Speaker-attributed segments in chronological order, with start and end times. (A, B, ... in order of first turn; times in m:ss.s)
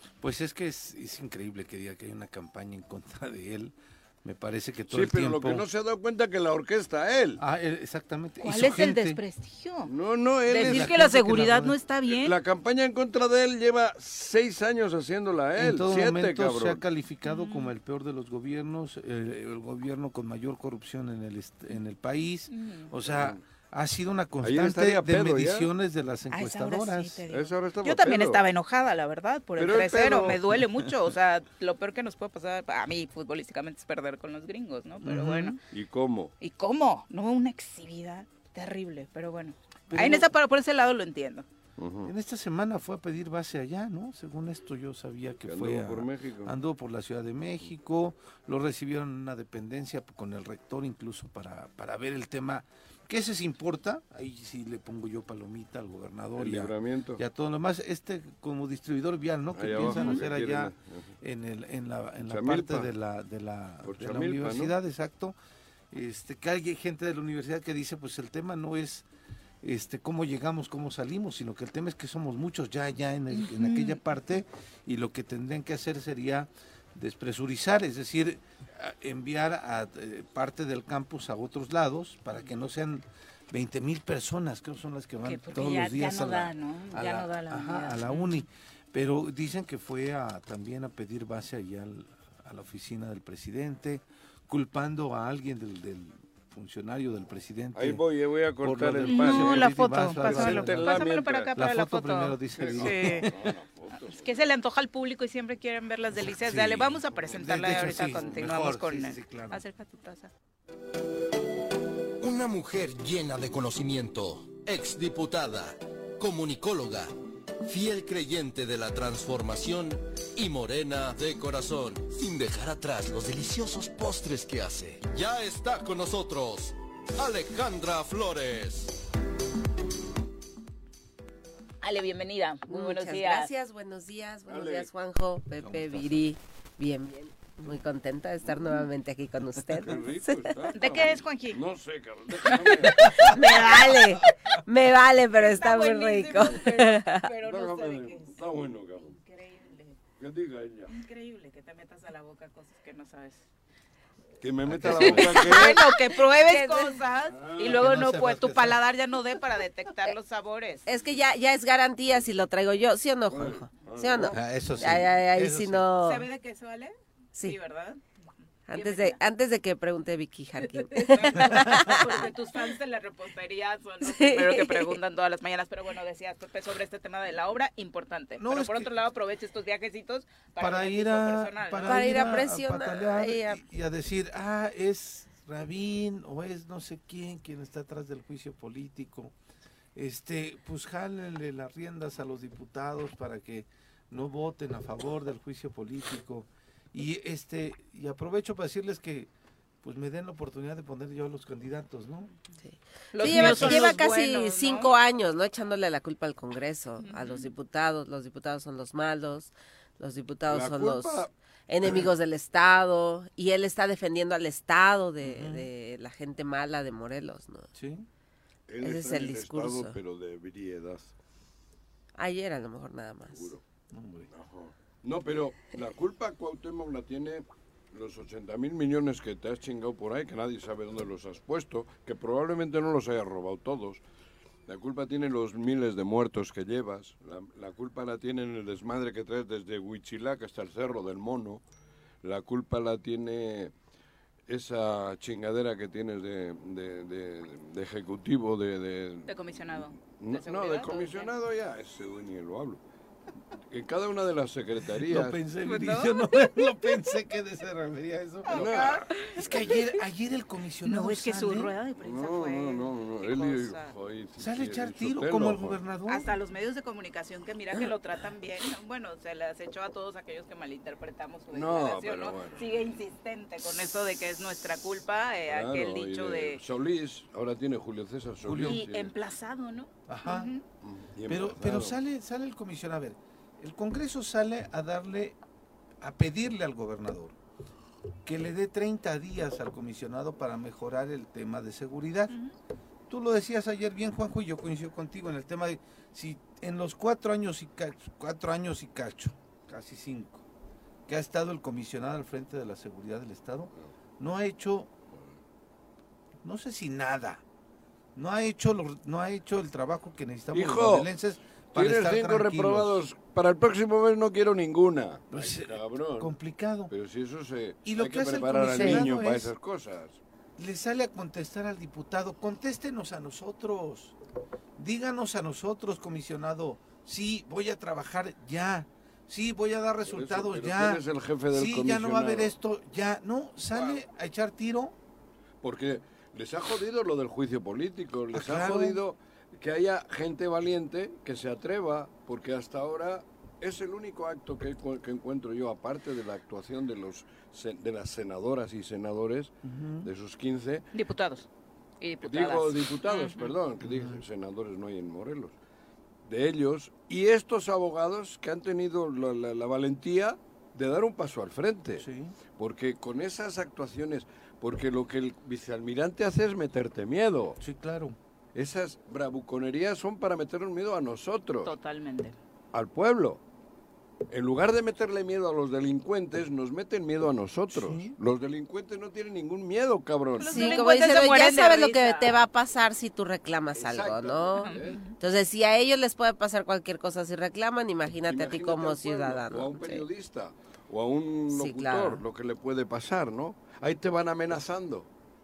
0:00.2-0:05.6 A
0:04.9-0:07.4 B
0:07.4-0:09.2 A
0:08.4-0:09.9 C
0:09.8-0:10.9 B
0:10.5-0:12.4 C
0:10.5-0:11.8 A
0:12.1-0:16.8 B
0:15.6-0:27.2 A
0:17.2-0:17.7 C
0:22.5-0:22.9 C
0:23.0-0:23.4 B
0:24.4-0:25.7 B
0:26.3-0:35.6 C
0:27.3-0:28.4 B
0:29.6-0:30.4 B
0:35.0-0:35.6 A
0:35.7-0:36.3 B
0:36.4-0:41.4 C
0:39.9-0:40.3 A
0:41.8-0:42.1 B
0:42.0-1:05.3 A
0:45.4-0:46.6 B
0:56.4-0:57.2 B
0:59.5-1:01.1 B
0:59.8-1:00.2 C
1:02.3-1:02.9 B
1:03.8-1:04.7 B
1:05.9-1:09.0 A
1:09.6-1:38.0 A
1:13.3-1:14.0 C
1:25.2-1:28.4 C
1:37.8-1:41.5 B
1:38.6-1:43.3 A
1:39.0-1:43.3 C
1:42.6-1:44.3 B
1:44.0-1:50.3 C
1:46.4-1:49.6 A
1:52.2-1:57.1 D
1:57.6-2:09.0 D
2:11.8-2:13.5 C
2:12.7-2:20.7 E
2:14.5-2:14.9 B
2:15.6-2:16.2 A
2:19.7-2:23.3 B
2:20.7-2:21.6 C
2:22.5-2:23.3 C
2:23.1-2:27.2 E
2:25.3-2:28.4 C
2:27.4-2:29.1 B
2:29.0-2:30.0 C
2:30.2-2:30.9 B
2:30.9-2:33.5 C
2:34.4-2:35.8 B
2:34.7-2:35.6 A
2:35.0-2:40.9 C
2:36.4-2:36.9 E
2:37.3-2:37.8 B
2:37.6-2:38.8 A
2:40.8-2:46.3 E
2:43.3-2:45.0 B
2:44.3-2:45.9 A
2:46.0-2:48.0 C
2:48.7-2:52.3 E
2:48.7-2:49.2 C
2:50.6-3:02.4 C
2:54.0-2:55.0 E
2:58.4-2:59.0 A
3:00.6-3:09.3 A
3:01.8-3:03.6 E
3:09.9-3:19.3 A
3:19.8-3:22.3 A
3:22.6-3:37.7 E
3:23.1-3:24.9 C
3:23.3-3:23.9 A
3:27.0-3:27.5 C
3:30.5-3:31.3 B
3:31.8-3:32.1 B
3:35.2-3:35.7 A
3:37.8-3:38.1 A
3:38.7-3:41.1 B
3:38.8-3:40.0 E
3:42.2-3:43.5 E
3:43.3-3:43.6 B
3:43.9-3:44.3 A
3:44.3-3:54.0 B
3:54.7-4:01.6 B
4:02.2-4:03.7 B
4:04.5-4:09.3 B
4:09.3-4:11.3 C
4:10.0-4:12.8 B
4:13.7-4:15.4 B
4:15.0-4:21.7 A
4:15.6-4:16.3 C
4:18.4-4:19.8 C
4:18.5-4:19.1 B
4:20.8-4:23.9 C
4:22.0-4:25.8 B
4:24.4-4:26.3 A
4:26.1-4:36.6 C
4:31.5-4:32.6 B
4:35.5-4:39.1 B
4:38.4-4:38.9 A
4:38.6-4:40.6 C
4:40.1-4:40.5 A
4:40.8-4:42.0 B
4:41.3-4:45.4 A
4:46.0-4:47.4 A
4:48.2-4:52.3 A
4:53.1-5:00.4 A
5:01.0-5:04.9 A
5:06.4-5:07.4 A
5:08.1-5:13.0 A
5:10.5-5:11.1 B
5:11.7-5:16.3 B
5:15.3-5:16.9 A
5:16.9-5:20.2 B
5:17.8-5:19.5 A
5:18.8-5:19.2 E
5:20.6-5:24.2 A
5:24.8-5:34.9 A
5:30.1-5:32.5 B
5:35.6-5:50.8 B
5:38.3-5:39.0 A
5:49.6-5:50.1 A
5:50.9-5:51.5 C
5:52.0-5:53.5 C
5:52.2-5:55.5 B
5:53.8-5:54.2 A
5:56.2-6:02.0 B
6:02.0-6:02.3 A
6:02.6-6:07.6 B
6:07.6-6:08.2 A
6:08.5-6:11.7 B
6:11.6-6:12.3 C
6:12.7-6:13.4 B
6:14.3-6:20.8 B
6:17.7-6:18.1 A
6:20.4-6:22.3 C
6:20.5-6:29.9 E
6:23.8-6:25.0 B
6:24.6-6:25.1 C
6:28.3-6:35.1 B
6:31.5-6:32.2 E